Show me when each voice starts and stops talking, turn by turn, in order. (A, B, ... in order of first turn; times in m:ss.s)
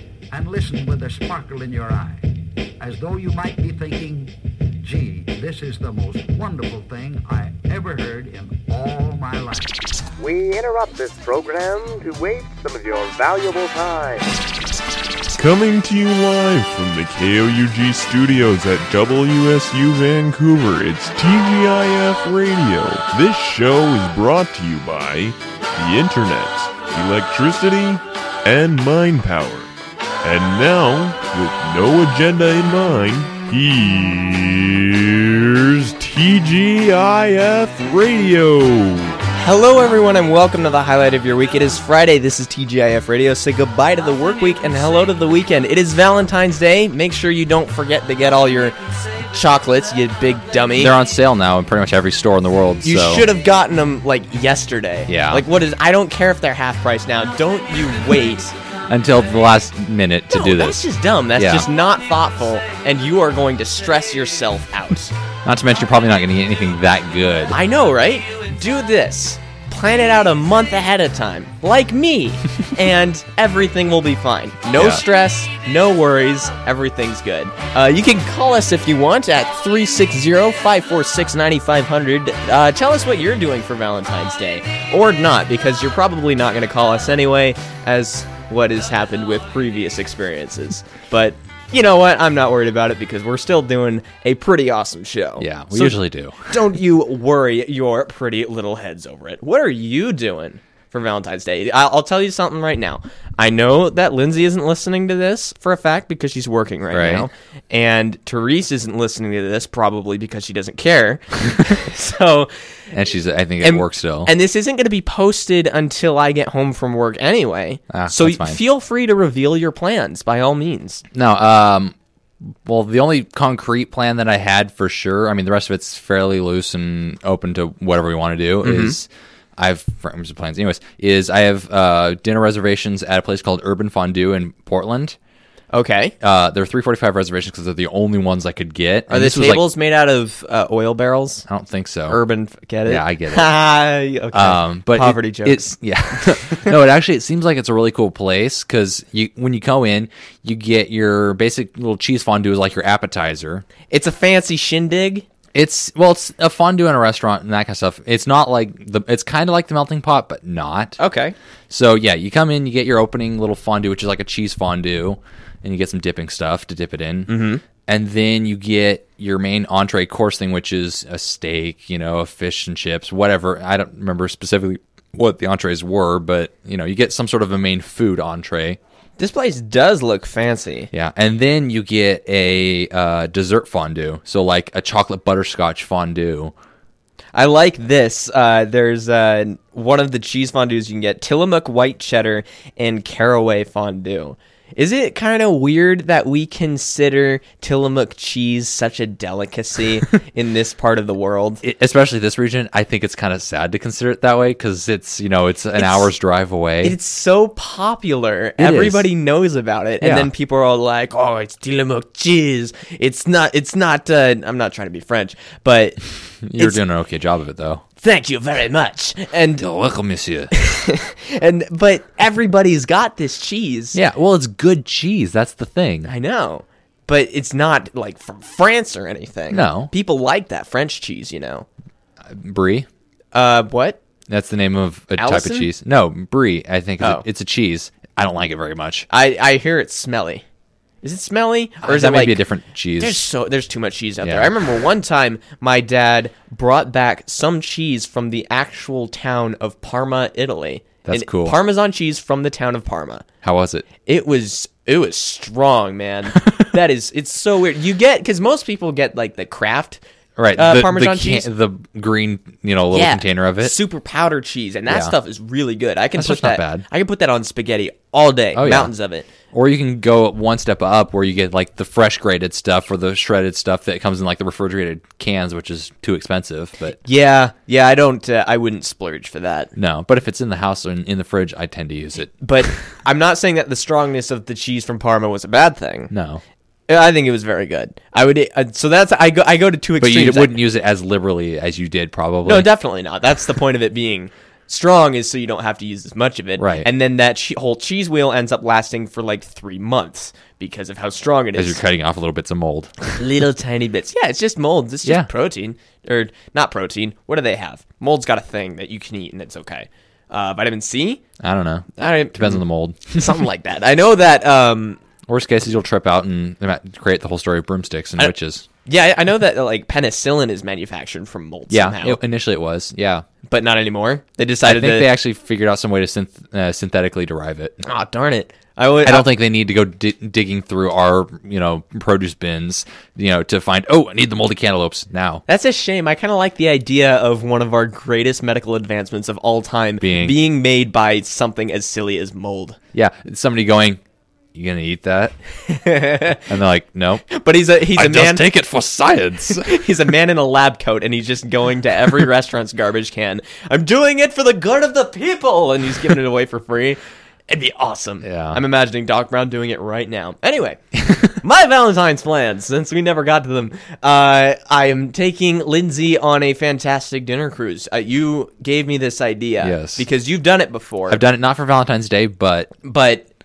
0:00.3-0:02.2 A
0:02.8-0:09.8 A
0:10.2-0:14.2 B
0:15.4-0:29.7 C
0:30.2-0:39.2 C
0:39.3-0:48.8 D
0:49.3-0:50.9 D
0:50.7-0:53.3 E
0:52.8-0:58.5 D
0:55.1-0:55.4 E
0:58.9-1:00.8 E
1:00.3-1:05.1 D
1:01.4-1:01.7 E
1:05.4-1:07.6 E
1:07.5-1:52.5 D
1:14.8-1:15.0 E
1:35.4-1:36.5 E
1:46.9-1:47.3 E
1:52.9-1:54.3 E
1:53.6-2:01.0 D
1:57.9-1:58.6 E
2:01.1-2:01.9 E
2:02.6-2:15.2 E
2:08.6-2:09.0 D
2:15.7-2:16.1 D
2:16.2-2:19.6 E
2:19.1-2:21.4 D
2:21.5-2:22.2 E
2:22.1-2:26.7 D
2:22.8-2:23.5 E
2:24.3-2:33.6 E
2:33.9-2:35.2 D
2:35.5-2:41.0 E
2:41.0-2:41.3 D
2:41.7-2:58.8 E
2:47.3-2:47.6 D
2:59.2-3:00.9 D
3:00.9-3:06.5 E
3:07.3-3:21.6 D
3:21.6-3:27.0 E
3:25.8-3:26.1 D
3:26.8-3:36.0 D
3:28.6-3:29.1 E
3:30.0-3:30.3 E
3:36.4-3:37.8 E
3:38.0-3:39.7 D
3:39.6-3:40.5 E
3:40.5-3:44.0 D
3:43.9-3:46.1 E
3:46.0-3:51.7 D
3:49.5-3:49.9 E
3:52.3-3:52.9 E
3:53.3-3:54.0 D
3:54.3-3:59.1 E
3:55.2-3:55.7 D
3:59.1-4:00.4 D
4:01.0-4:02.4 D
4:01.8-4:03.2 E
4:03.0-4:13.2 D
4:04.2-4:04.5 E
4:11.0-4:11.6 E
4:13.4-4:13.9 E
4:14.0-4:20.0 D
4:20.4-4:23.8 E
4:20.5-4:21.5 D
4:22.9-4:29.3 D
4:24.9-4:25.1 E
4:26.2-4:26.8 E
4:28.5-4:28.9 E
4:29.5-4:37.0 E
4:37.0-4:39.7 D
4:39.8-4:42.4 E
4:42.4-4:46.1 D
4:46.1-4:46.4 E
4:46.9-4:50.6 D
4:50.0-4:52.7 E
4:52.4-5:01.8 D
4:56.6-4:56.9 E
5:01.5-5:03.0 E
5:03.1-5:11.2 D
5:05.0-5:05.3 E
5:11.4-5:13.2 E
5:12.0-5:15.0 D
5:15.3-5:18.7 E
5:18.8-5:22.2 D
5:21.7-5:23.2 E
5:23.4-5:25.1 D
5:24.6-5:27.8 E
5:27.8-5:29.3 D
5:29.0-5:35.4 E
5:35.5-5:42.8 D
5:40.0-5:40.4 E
5:42.9-5:44.0 E
5:44.5-5:45.4 E
5:45.7-5:46.4 D
5:46.4-5:47.3 E
5:47.3-5:48.5 D
5:47.9-5:49.7 E
5:49.5-6:11.2 D
5:58.2-5:58.6 E
6:09.6-6:10.0 E
6:11.1-6:12.7 E
6:12.8-6:13.2 D